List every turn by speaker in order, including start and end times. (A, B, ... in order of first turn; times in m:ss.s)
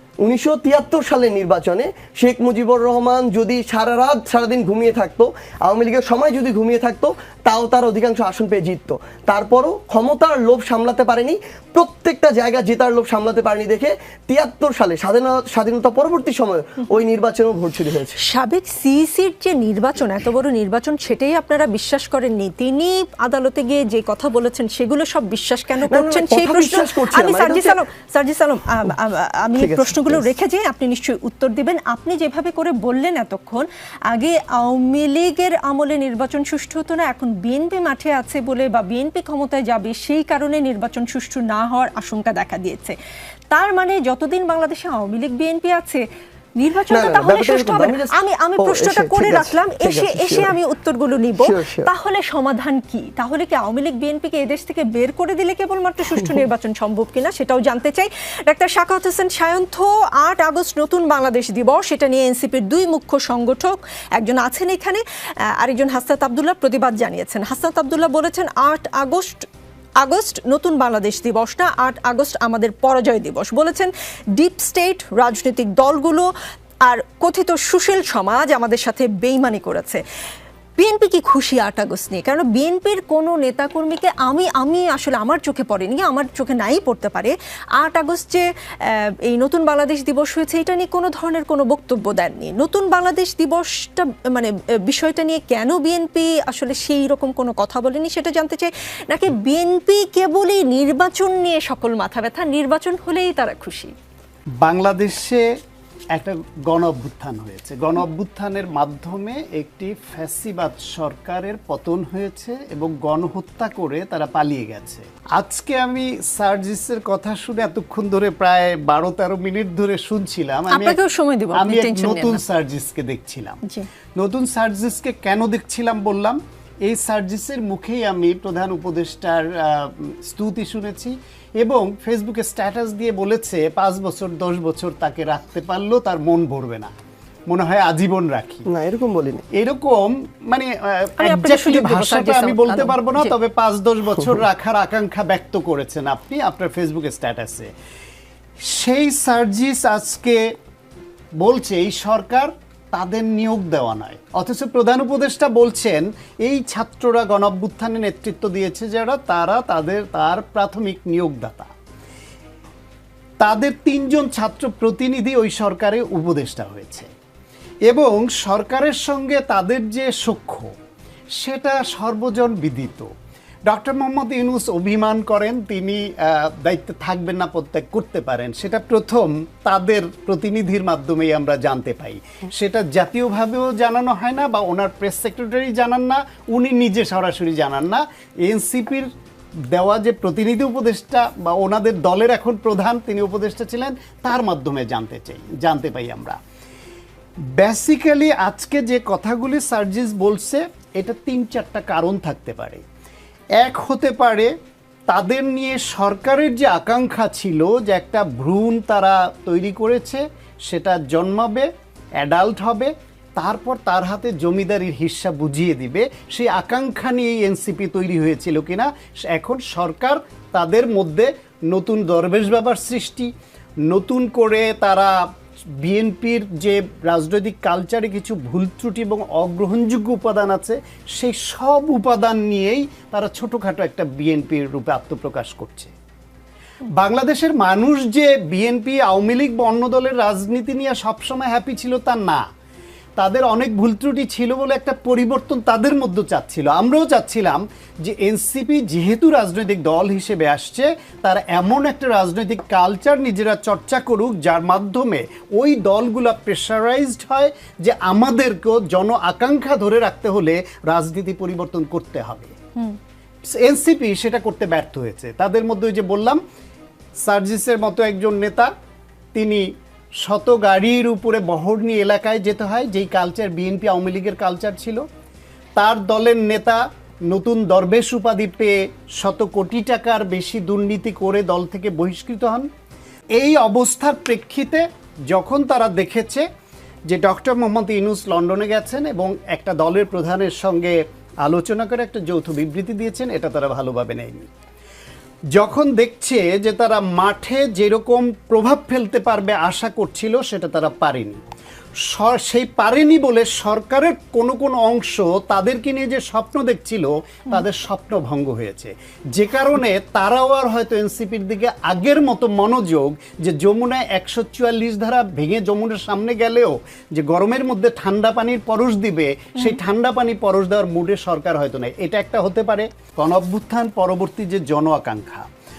0:00.2-0:18.2 A
0:18.2-0:43.0 B
0:25.9-0:27.8 A
0:29.6-0:30.3 A
0:43.5-0:46.0 B
0:46.6-1:05.0 B
0:46.9-0:50.5 A
0:51.4-0:51.9 A
1:05.6-1:09.5 B
1:10.0-1:16.3 B
1:16.9-1:20.0 B
1:20.8-1:43.9 B
1:44.6-1:45.5 C
1:46.1-2:01.0 C
2:00.7-2:02.4 B
2:01.5-2:03.6 C
2:04.2-2:16.9 C
2:17.5-2:18.7 C
2:18.7-2:19.5 A
2:19.5-2:27.7 C
2:21.2-2:23.3 B
2:28.6-2:30.5 C
2:31.4-2:41.7 C
2:43.4-2:47.1 C
2:47.9-2:50.7 C
2:51.4-2:53.1 C
2:53.7-3:16.4 C
3:17.4-3:22.8 C
3:23.6-3:24.5 C
3:25.1-3:43.3 C
3:43.9-3:45.2 C
3:45.8-3:55.9 C
3:56.9-4:02.4 C
4:03.2-4:22.6 C
4:23.4-4:26.4 C
4:27.2-4:28.7 C
4:29.4-4:35.0 C
4:35.8-4:42.7 C
4:43.4-4:46.5 C
4:47.1-4:54.5 C
4:55.5-5:01.4 C
5:02.0-5:25.5 C